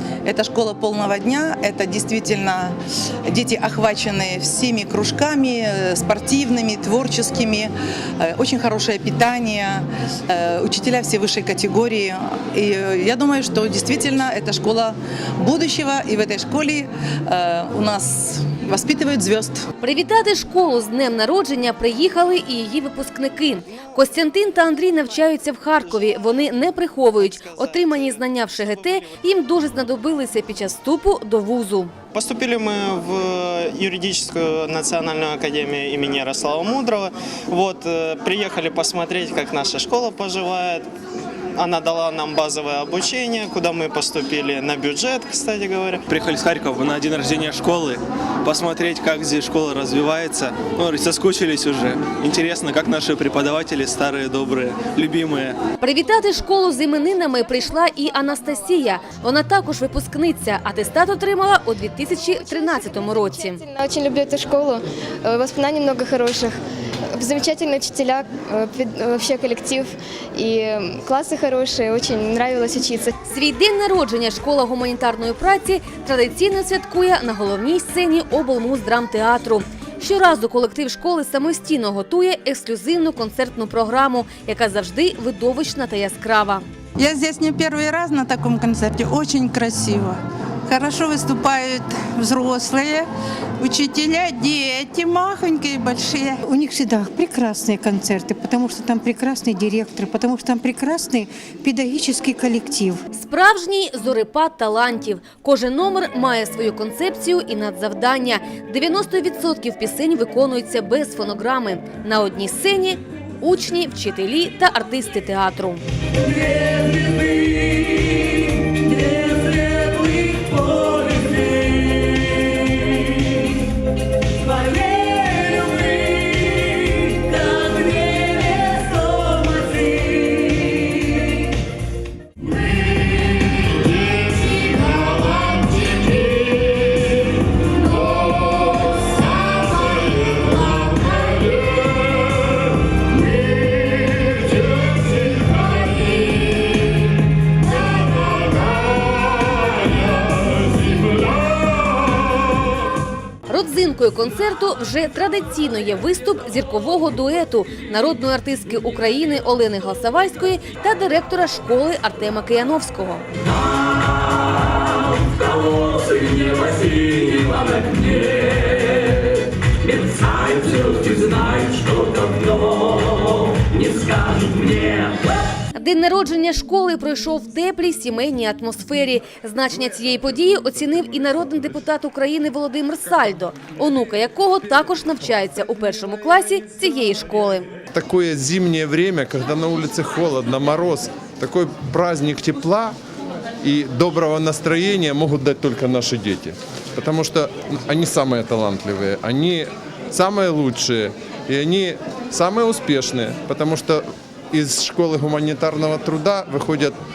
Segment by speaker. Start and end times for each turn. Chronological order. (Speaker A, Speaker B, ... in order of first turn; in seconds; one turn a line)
Speaker A: 0.2-2.8
Speaker A: 3.3-19.6
Speaker B: 19.8-31.9
Speaker A: 27.4-27.8
Speaker C: 32.1-40.9
Speaker C: 41.6-46.0
Speaker D: 46.0-55.6
Speaker B: 55.8-63.6
Speaker E: 62.6-66.6
Speaker E: 67.2-73.2
Speaker B: 73.3-86.6
Speaker F: 87.0-93.1
Speaker F: 93.6-96.4
Speaker G: 96.4-103.0
Speaker B: 103.1-115.8
Speaker B: 153.5-163.2
Speaker B: 175.8-187.7
Speaker H: 187.9-192.9
Speaker H: 193.6-207.0